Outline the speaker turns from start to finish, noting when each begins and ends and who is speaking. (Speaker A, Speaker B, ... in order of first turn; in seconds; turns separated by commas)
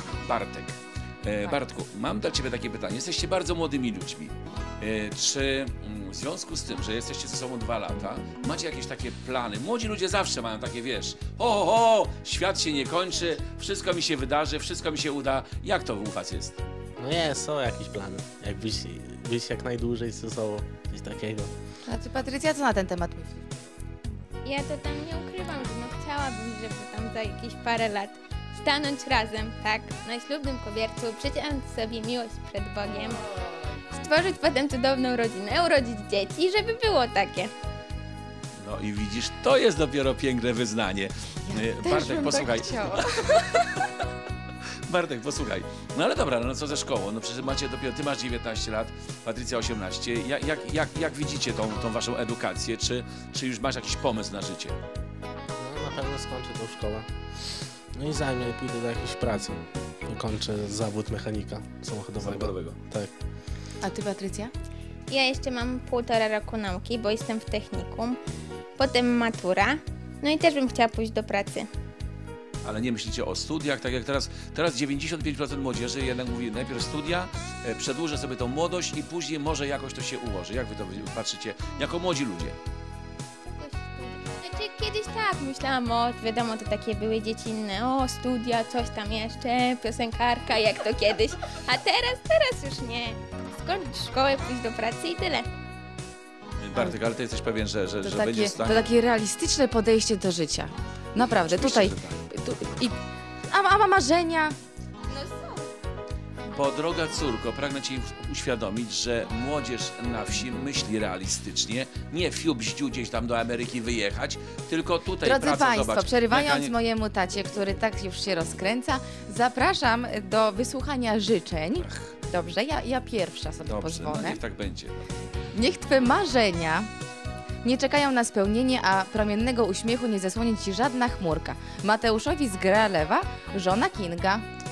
Speaker A: 0.2-16.6, Speaker B: 17.0-21.5, Speaker C: 21.9-23.5, Speaker D: 24.4-33.2, Speaker D: 33.9-37.5, Speaker A: 38.6-44.0, Speaker C: 41.5-43.4, Speaker A: 44.9-54.8, Speaker B: 55.5-63.1, Speaker A: 62.2-62.8, Speaker C: 63.8-64.5, Speaker D: 65.1-68.2, Speaker D: 68.8-71.7, Speaker A: 72.6-82.6, Speaker D: 83.4-95.5, Speaker A: 96.6-98.9, Speaker C: 98.0-103.0, Speaker A: 101.1-102.2, Speaker C: 103.5-104.5, Speaker C: 105.1-105.4, Speaker A: 106.5-116.7, Speaker C: 115.2-124.4, Speaker A: 121.8-122.2, Speaker A: 123.7-125.0, Speaker C: 125.5-126.9, Speaker C: 127.6-134.4